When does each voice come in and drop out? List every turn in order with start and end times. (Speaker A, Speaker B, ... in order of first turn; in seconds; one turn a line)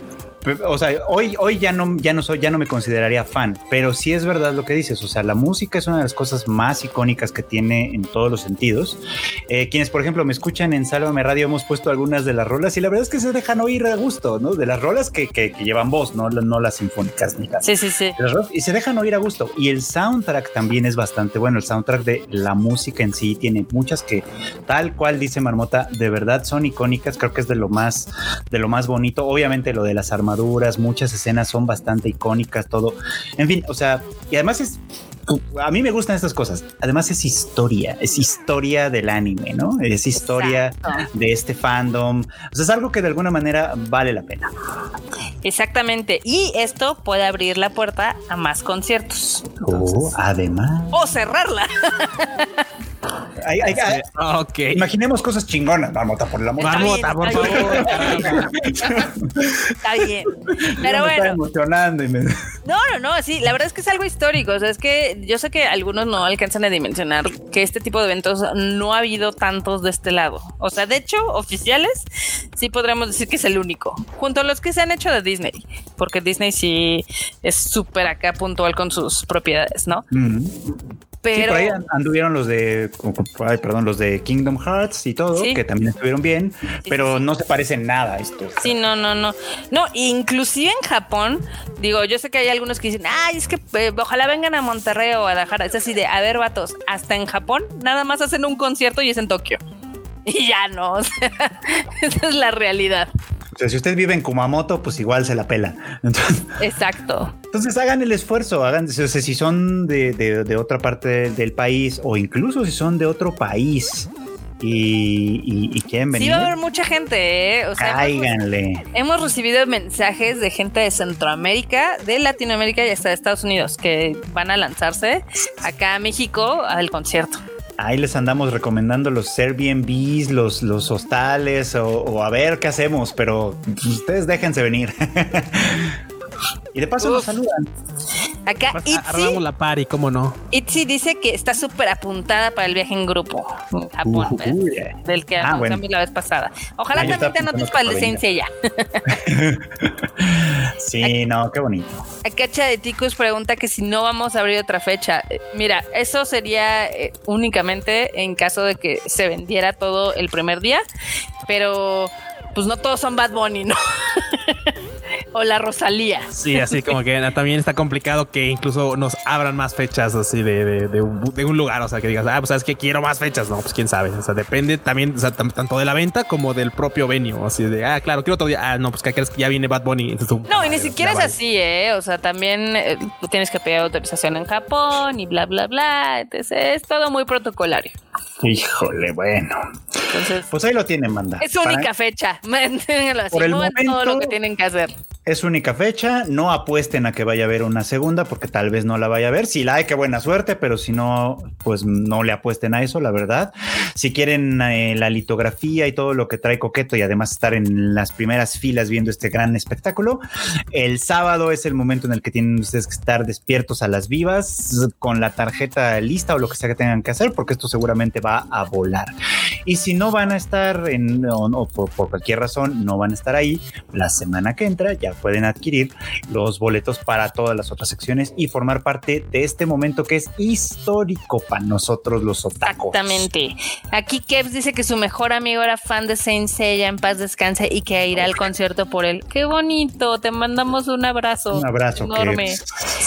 Speaker A: 0.4-44.5
Speaker B: 17.6-18.2
Speaker B: 40.1-41.0
Speaker B: 45.4-49.6
Speaker A: 49.6-51.1
Speaker B: 50.9-52.6
Speaker A: 53.4-54.0
Speaker C: 53.7-54.8
Speaker A: 54.7-62.3
Speaker B: 56.6-59.1
Speaker C: 56.6-58.5
Speaker B: 59.8-61.4
Speaker B: 62.6-80.0
Speaker A: 80.1-80.6
Speaker B: 81.2-81.8
Speaker A: 81.3-88.7
Speaker B: 85.3-85.6
Speaker B: 86.8-87.2
Speaker B: 88.6-99.6
Speaker B: 100.2-103.1
Speaker A: 103.5-106.5
Speaker B: 106.6-107.3
Speaker A: 107.5-114.1
Speaker A: 114.6-116.5
Speaker B: 116.1-118.3
Speaker A: 117.8-118.8
Speaker B: 118.9-127.4
Speaker A: 127.8-136.0
Speaker A: 136.7-137.7
Speaker B: 137.0-137.3
Speaker B: 138.4-139.4
Speaker C: 138.7-140.4
Speaker B: 140.5-149.1
Speaker A: 144.0-145.8
Speaker A: 146.9-148.2
Speaker A: 149.1-152.0
Speaker B: 152.2-160.8
Speaker B: 161.5-164.7
Speaker B: 165.3-166.9
Speaker C: 166.3-181.3
Speaker B: 180.5-188.0
Speaker A: 188.4-189.6
Speaker B: 190.1-190.5
Speaker A: 190.4-191.9
Speaker B: 191.4-194.9
Speaker A: 193.3-194.3
Speaker A: 195.2-219.1
Speaker A: 219.7-233.3
Speaker B: 232.7-242.6
Speaker A: 238.1-238.5
Speaker A: 241.5-242.7